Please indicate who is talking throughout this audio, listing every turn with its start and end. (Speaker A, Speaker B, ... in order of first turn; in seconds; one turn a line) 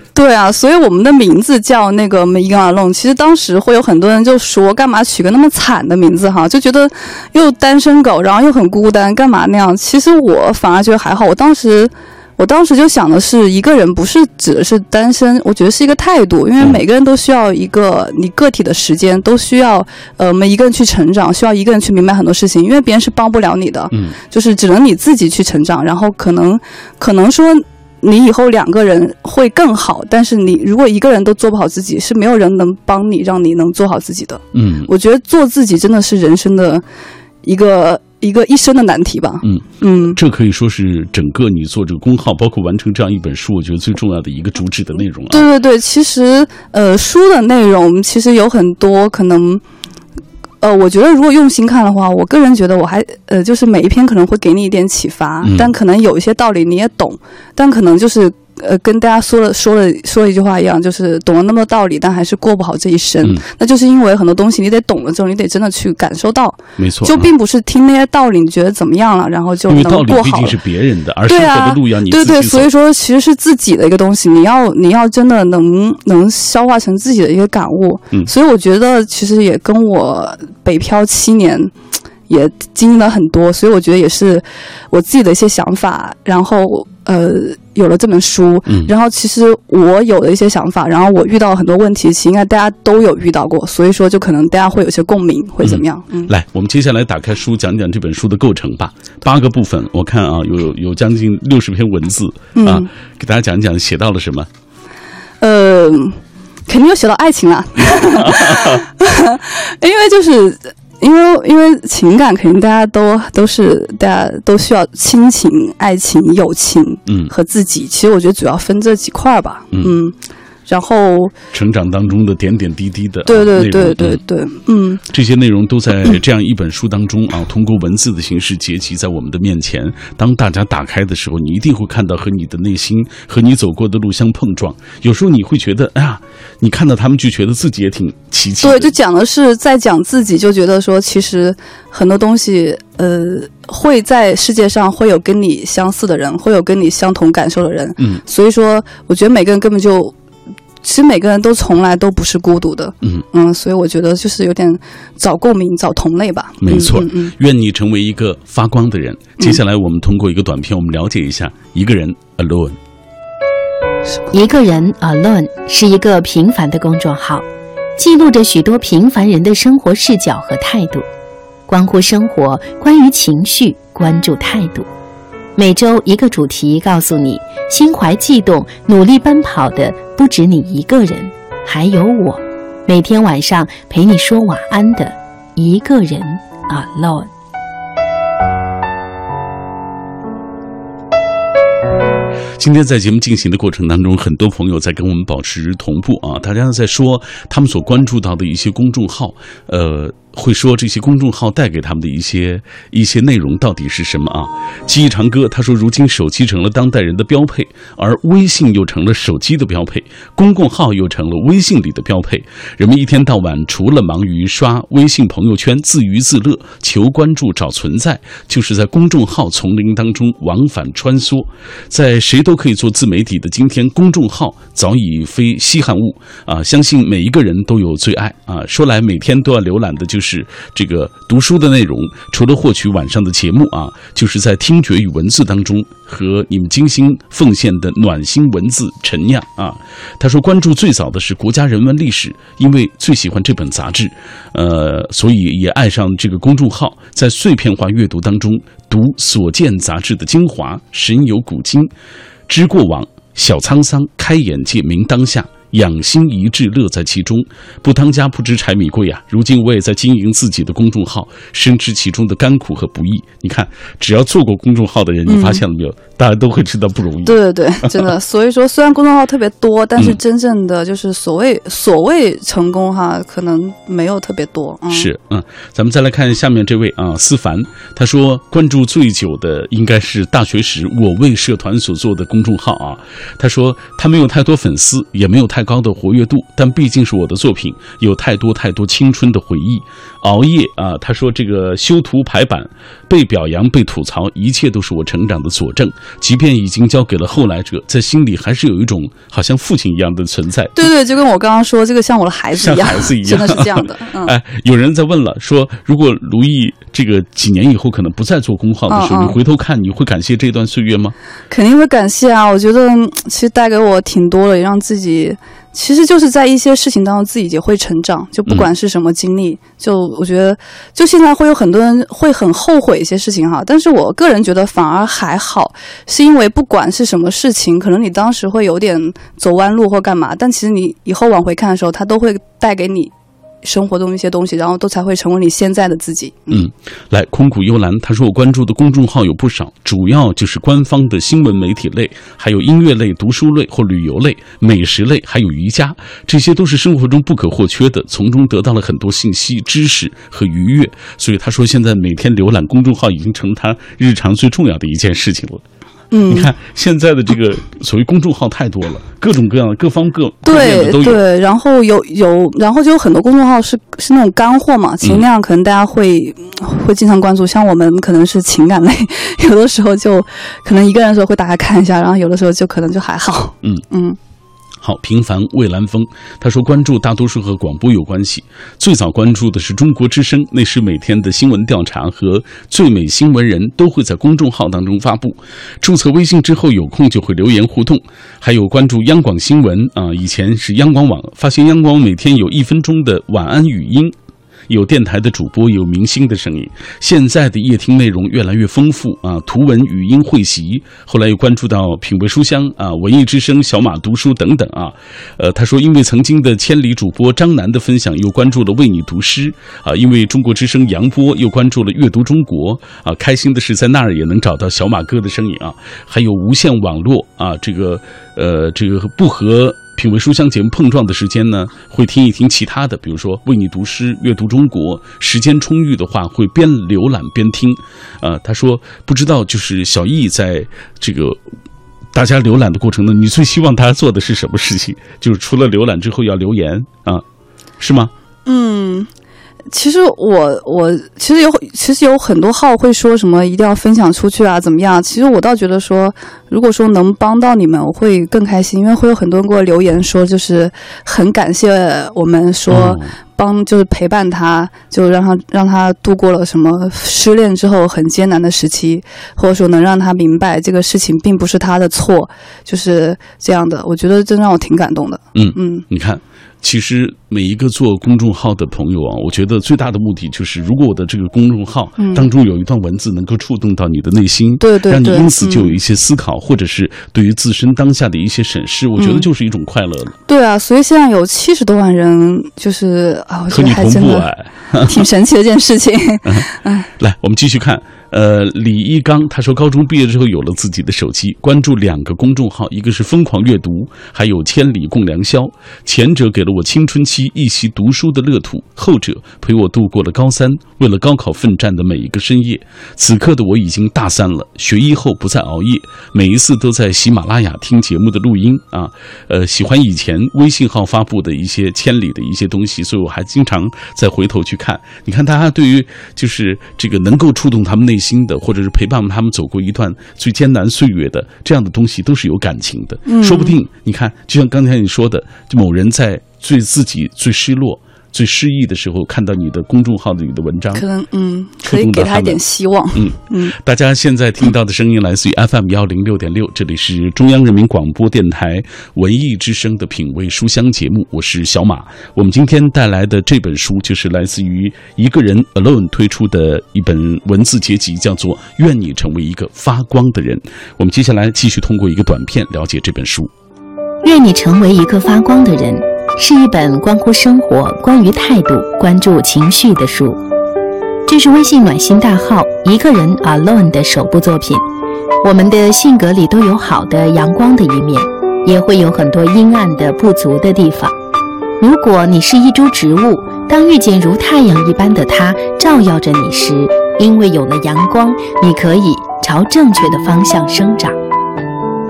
Speaker A: 0.1-36.8
Speaker B: 23.9-24.2
Speaker B: 34.5-34.9
Speaker A: 37.4-40.2
Speaker B: 39.4-45.5
Speaker A: 45.3-49.6
Speaker A: 50.6-70.5
Speaker B: 55.4-55.7
Speaker B: 66.8-67.3
Speaker B: 69.7-72.7
Speaker A: 71.3-81.7
Speaker A: 82.3-96.3
Speaker B: 95.6-104.5
Speaker A: 102.5-102.9
Speaker A: 105.4-120.1
Speaker B: 108.2-108.8
Speaker B: 117.1-117.3
Speaker A: 120.7-121.3
Speaker B: 121.5-124.2
Speaker A: 123.2-125.0
Speaker B: 125.1-138.9
Speaker A: 138.6-150.1
Speaker A: 150.8-157.3
Speaker B: 156.6-162.8
Speaker C: 164.3-167.4
Speaker C: 168.0-171.1
Speaker C: 171.7-174.9
Speaker C: 175.6-187.3
Speaker B: 192.6-251.9
Speaker B: 252.5-267.9
Speaker A: 265.3-265.6
Speaker A: 267.2-275.1
Speaker B: 274.9-300.9
Speaker A: 300.8-304.4
Speaker B: 302.6-311.1
Speaker A: 308.9-309.4
Speaker A: 311.5-333.1
Speaker A: 333.6-336.6
Speaker B: 336.5-355.6
Speaker A: 356.1-356.5
Speaker B: 356.3-361.2
Speaker A: 360.4-374.2
Speaker B: 374.8-394.1
Speaker B: 394.7-431.4
Speaker B: 432.1-437.2
Speaker B: 437.8-438.1
Speaker A: 438.4-439.1
Speaker A: 439.7-465.8
Speaker B: 452.7-453.1
Speaker B: 465.3-480.1
Speaker A: 472.0-472.3
Speaker A: 474.6-475.7
Speaker A: 479.0-479.2
Speaker A: 480.3-484.3
Speaker B: 483.5-485.0
Speaker A: 484.9-486.9
Speaker B: 487.0-530.8
Speaker A: 523.1-523.5
Speaker A: 530.7-533.5
Speaker B: 531.6-532.4
Speaker B: 532.9-553.3
Speaker C: 554.0-560.2
Speaker C: 561.1-564.6
Speaker C: 565.2-570.9
Speaker C: 571.6-580.9